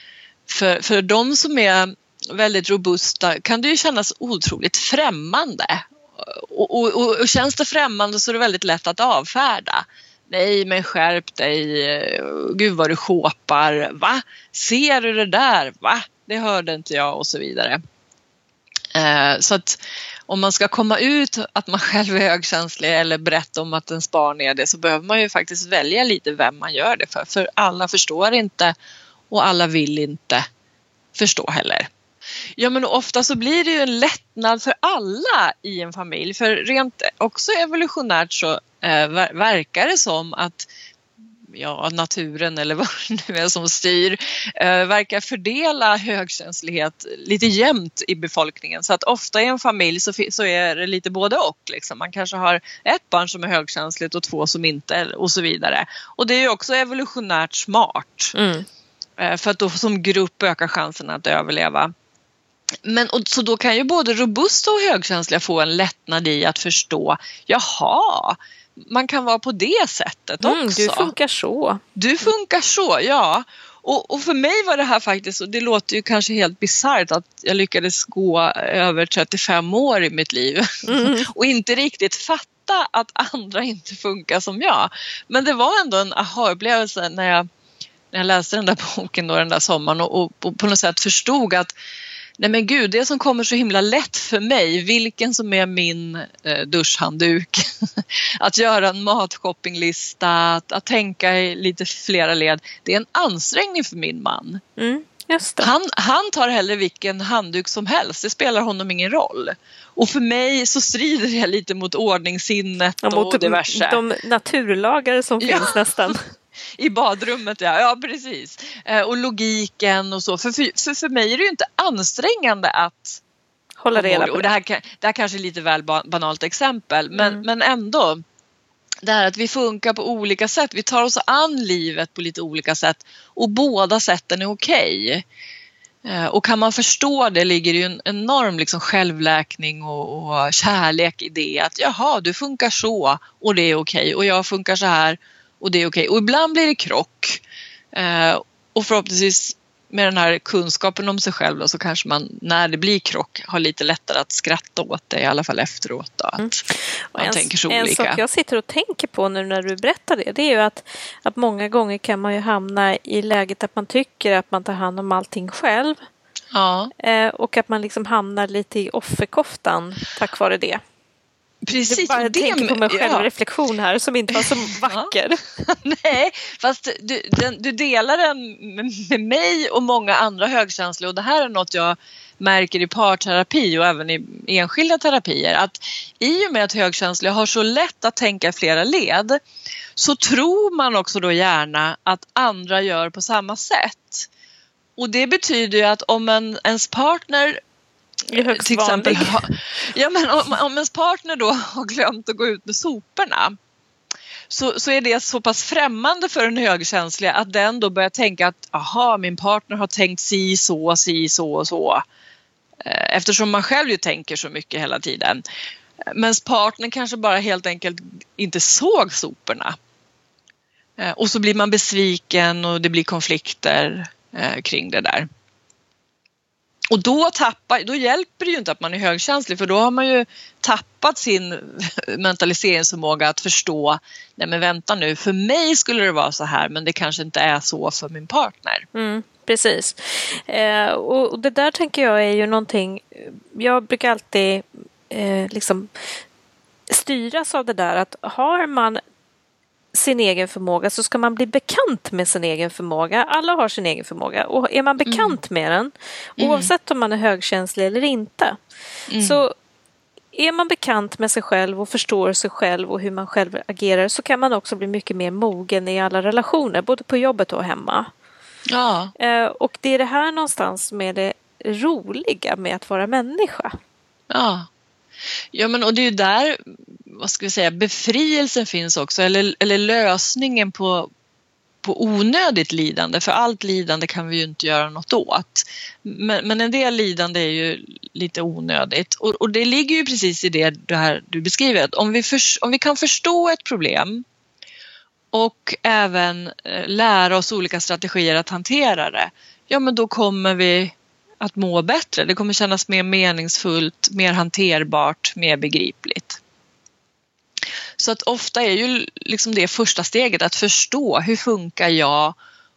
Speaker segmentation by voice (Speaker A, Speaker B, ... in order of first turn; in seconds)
Speaker A: 0.5-17.8, 18.9-28.7, 29.3-30.4, 31.1-31.9, 32.6-40.7, 41.5-58.3, 59.2-61.9, 62.8-71.1, 72.0-87.4, 88.1-91.7, 92.4-104.6, 105.6-114.0, 115.4-116.1, 116.8-123.2, 123.9-128.2, 129.0-135.2, 136.0-156.5, 157.1-158.2, 166.5-166.9, 171.6-173.3, 174.3-189.4, 189.9-194.3, 195.0-197.6, 198.3-203.5, 204.5-212.0, 212.8-215.4, 216.1-219.7, 221.0-225.3, 226.9-238.9, 255.1-255.3, 256.4-256.7, 259.1-259.4, 268.7-269.1, 274.3-274.7, 275.5-281.1, 281.8-294.2, 295.3-306.4, 308.0-312.4
Speaker B: 58.3-58.6, 70.4-71.8, 80.9-81.3, 104.8-105.7, 113.0-116.2, 123.8-124.5, 127.1-127.4, 156.4-166.0, 167.0-170.8, 171.8-175.4, 198.3-199.4, 238.9-246.1, 246.9-249.0, 249.9-258.6, 259.2-259.5, 260.3-268.1, 269.2-273.7